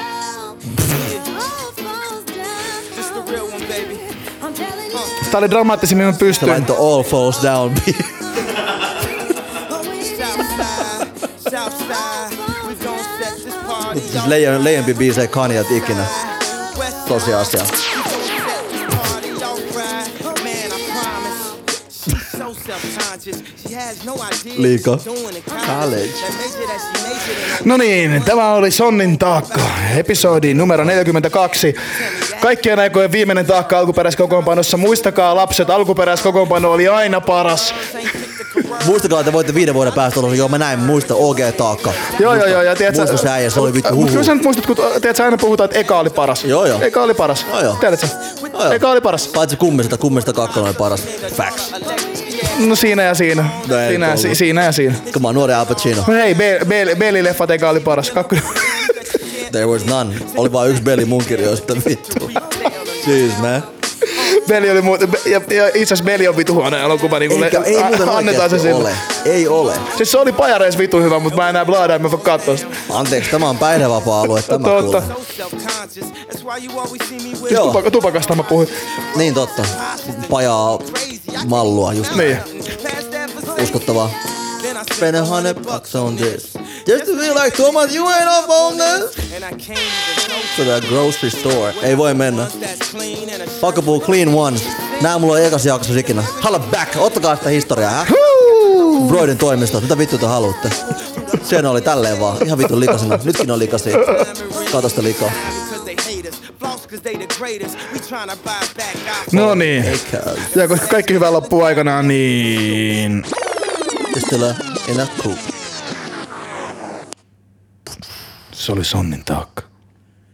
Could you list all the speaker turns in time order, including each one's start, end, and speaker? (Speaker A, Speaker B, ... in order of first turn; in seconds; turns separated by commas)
Speaker A: 0.5-5.3, Speaker B: 5.2-6.7, Speaker A: 6.0-6.6, Speaker C: 6.4-8.3, Speaker A: 8.6-14.8, Speaker C: 13.9-16.1, Speaker A: 15.7-30.9, Speaker C: 17.1-17.7, Speaker C: 24.5-25.0, Speaker C: 25.6-26.2, Speaker B: 27.5-37.9, Speaker C: 30.3-31.0, Speaker A: 31.8-32.6, Speaker A: 33.5-43.2, Speaker C: 38.8-44.3, Speaker B: 42.1-48.1, Speaker A: 44.7-46.8, Speaker C: 46.4-46.9, Speaker C: 47.4-47.8, Speaker A: 48.2-48.8, Speaker C: 48.5-51.7, Speaker B: 48.7-49.3, Speaker A: 49.8-54.4, Speaker B: 52.5-55.0, Speaker C: 53.6-54.4, Speaker A: 54.9-63.6, Speaker C: 55.1-56.1, Speaker B: 56.0-58.9, Speaker C: 59.5-62.4, Speaker C: 63.0-63.7, Speaker B: 64.0-69.0, Speaker A: 64.2-64.8, Speaker C: 67.3-69.9, Speaker A: 69.4-70.3, Speaker B: 69.9-72.8, Speaker A: 71.3-73.7, Speaker C: 72.9-75.1, Speaker B: 74.5-75.1, Speaker A: 74.9-95.3, Speaker C: 77.5-77.8, Speaker B: 77.5-78.8, Speaker C: 79.1-82.4, Speaker B: 82.1-82.4, Speaker C: 83.5-84.2, Speaker C: 84.9-89.3, Speaker C: 90.5-92.5, Speaker C: 93.6-98.2, Speaker A: 95.9-99.0, Speaker B: 98.3-98.9, Speaker C: 98.8-100.8, Speaker A: 100.7-102.6, Speaker C: 101.4-105.4, Speaker A: 103.9-112.8, Speaker B: 109.3-110.0, Speaker C: 109.3-110.5, Speaker B: 110.5-113.3, Speaker C: 114.1-115.5, Speaker B: 118.5-119.7